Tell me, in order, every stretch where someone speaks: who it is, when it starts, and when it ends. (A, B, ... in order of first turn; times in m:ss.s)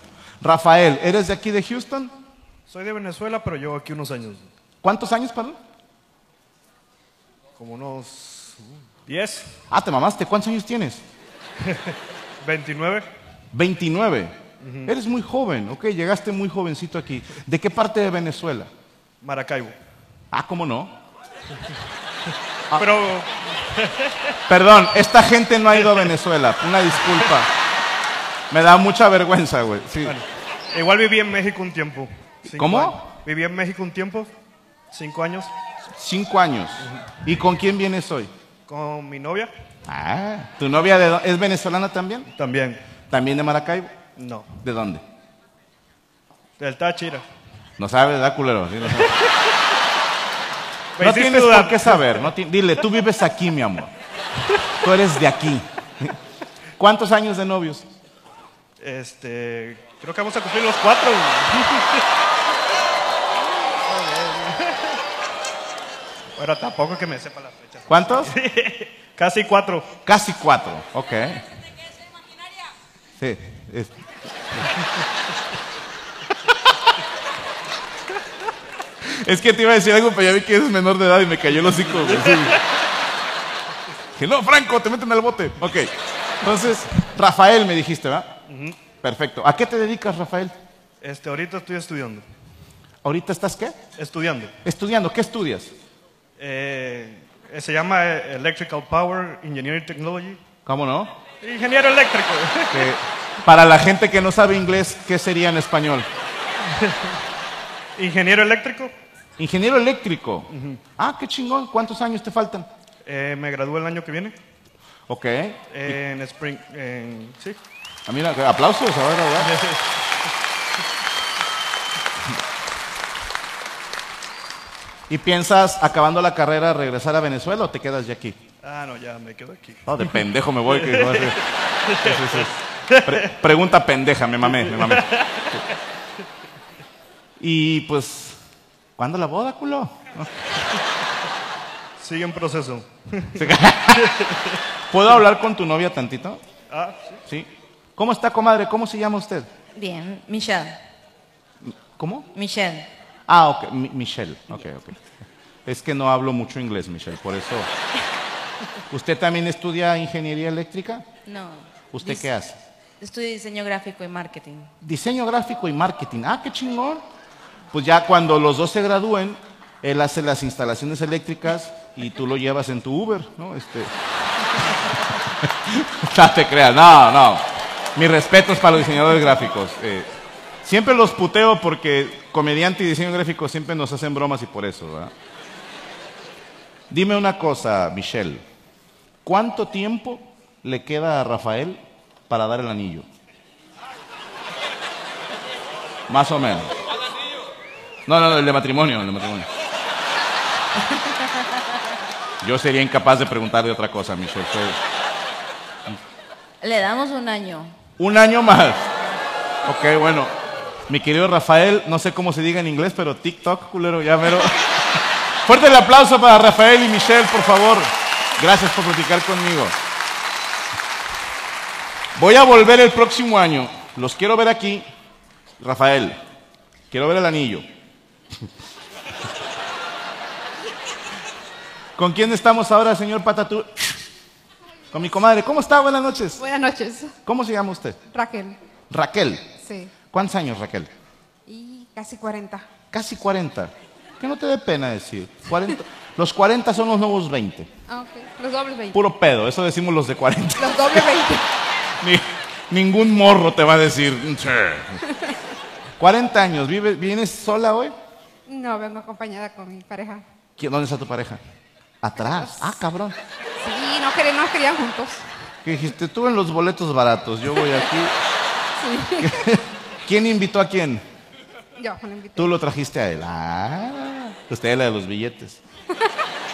0:00.4-0:02.1 A
0:02.7-0:04.5 B
0:04.8-0:05.6 A
0:07.6-0:09.6 B
0:09.7-0:11.0 A
0:11.6-0:13.1 B
0:13.5-0:18.7 A
0:14.6-0:14.9 B
0:19.2-0:19.8 B
0:20.3-0:21.0 A
0:22.8-0:24.4 B
0:24.5-0:27.5 A
0:28.5-0:30.2 A
0:30.0-0:34.3 B
0:32.5-0:33.0 A
0:34.9-0:35.5 B
0:36.0-0:38.3 A
0:38.7-0:39.5 B
0:39.9-0:42.3 A
0:42.4-0:42.8 B
0:43.1-0:43.9 A
0:44.2-0:44.5 B
0:44.6-0:45.0 A
0:46.6-0:47.2 B
0:47.8-0:49.2 A
0:51.0-0:52.3 B
0:51.0-0:53.9 A
0:54.8-0:56.2 A
0:56.8-0:57.9 A
0:58.8-1:02.0 B
1:03.9-1:05.0 B
1:06.4-1:09.9 B
1:07.9-1:08.4 A
1:10.0-1:11.4 A
1:13.2-1:14.0 A
1:19.0-1:22.6 A
1:21.7-1:22.6 B
1:24.2-1:28.3 A
1:28.5-1:28.8 B
1:29.0-1:30.6 A
1:31.0-1:32.2 B
1:33.0-1:33.8 A
1:34.0-1:34.5 B
1:34.6-1:35.7 A
1:36.4-1:40.4 B
1:40.7-1:41.2 A
1:41.4-1:42.9 B
1:42.7-1:46.1 A
1:48.0-1:48.9 B
1:49.4-1:52.7 A
1:50.5-1:50.8 B
1:53.0-1:54.4 B
1:55.1-1:55.6 A
1:55.7-1:57.6 B
1:58.1-1:59.5 A
1:59.4-1:59.8 B
2:05.1-2:08.4 A
2:08.6-2:10.0 B
2:09.9-2:11.4 A
2:10.7-2:13.3 B
2:12.0-2:15.6 A
2:14.4-2:15.6 B
2:17.4-2:18.4 A
2:19.0-2:20.3 A
2:22.0-2:24.6 B
2:23.4-2:24.2 A
2:24.9-2:26.4 A
2:26.7-2:27.2 B
2:27.3-2:29.5 A
2:29.8-2:30.8 C
2:31.7-2:32.3 A
2:32.3-2:32.9 C
2:33.3-2:35.0 A
2:35.7-2:37.7 A
2:38.9-2:41.0 A
2:41.3-2:42.3 C
2:41.9-2:42.6 A
2:43.0-2:44.7 C
2:44.8-2:47.0 A
2:47.7-2:53.9 A
2:55.4-2:57.4 A
2:58.0-3:00.1 A
3:00.6-3:05.1 A
3:06.9-3:08.4 A
3:09.2-3:13.1 A
3:16.1-3:16.7 A
3:18.1-3:19.5 A
3:22.4-3:24.8 A
3:26.6-3:27.8 C
3:28.0-3:28.9 A
3:29.6-3:30.3 A
3:30.9-3:34.7 A
3:35.4-3:39.8 A
3:42.2-3:44.8 A
3:45.6-3:46.2 A
3:46.9-3:47.6 A
3:52.0-3:54.0 A
3:54.9-3:56.4 A
3:56.4-3:57.2 D
3:57.2-3:58.0 A
3:58.1-3:58.6 D
3:58.9-3:59.4 A
3:59.6-3:59.9 D
4:00.1-4:00.9 A
4:01.5-4:02.7 D
4:02.9-4:07.7 A
4:07.9-4:09.0 D
4:08.9-4:11.2 A
4:10.6-4:11.4 D
4:12.0-4:15.0 A
4:16.0-4:17.9 A
4:18.5-4:20.2 D
4:20.6-4:21.4 A
4:22.0-4:23.2 A
4:22.2-4:22.7 D
4:23.6-4:25.2 D
4:25.6-4:28.2 A
4:28.8-4:29.5 D
4:29.2-4:31.0 A
4:31.8-4:32.5 D
4:32.4-4:35.6 A